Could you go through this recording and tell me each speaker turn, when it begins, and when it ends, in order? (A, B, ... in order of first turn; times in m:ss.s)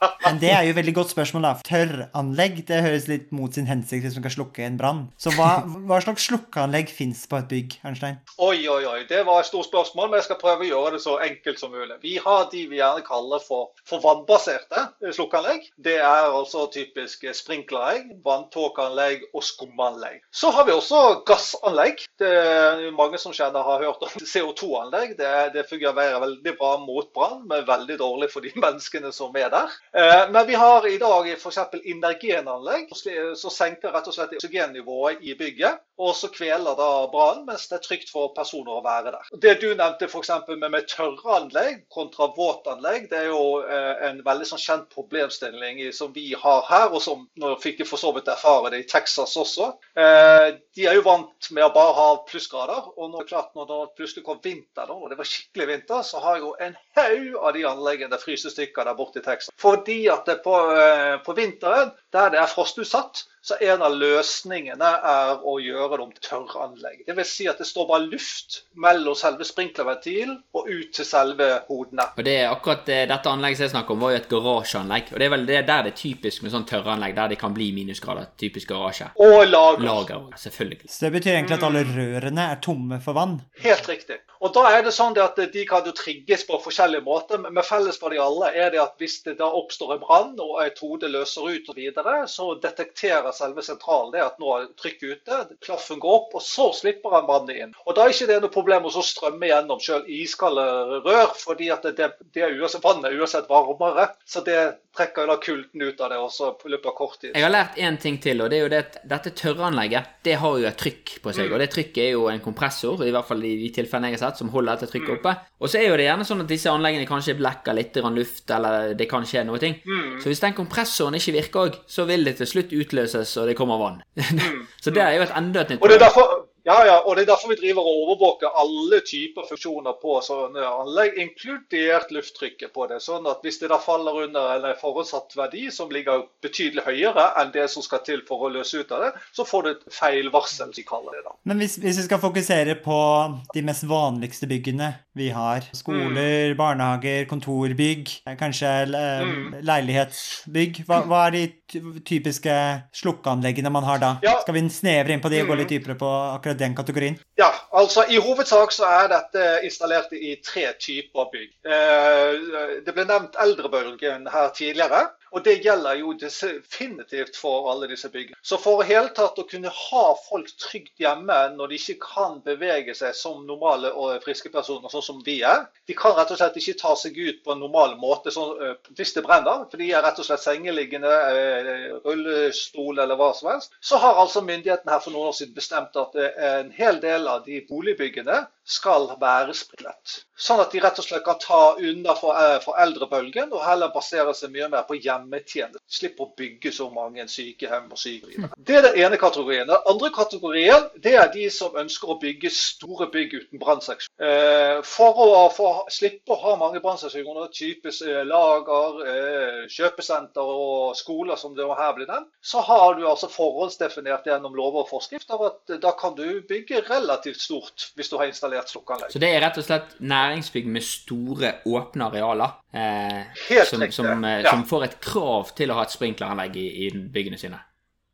0:00.2-0:08.2 A
0:08.4-1:12.1 B
1:12.2-1:19.1 C
1:19.2-1:20.1 B
1:19.8-1:20.8 C
1:20.9-1:23.5 A
1:21.4-1:21.9 B
1:23.6-1:47.5 B
1:47.3-2:06.1 C
1:55.0-1:55.2 B
1:59.8-2:00.2 B
2:04.4-2:05.0 B
2:05.8-2:21.4 B
2:21.4-2:37.2 A
2:25.9-2:26.3 B
2:29.2-2:29.5 B
2:35.3-2:35.7 B
2:37.4-3:39.1 B
3:39.1-3:47.6 C
3:43.4-3:44.6 B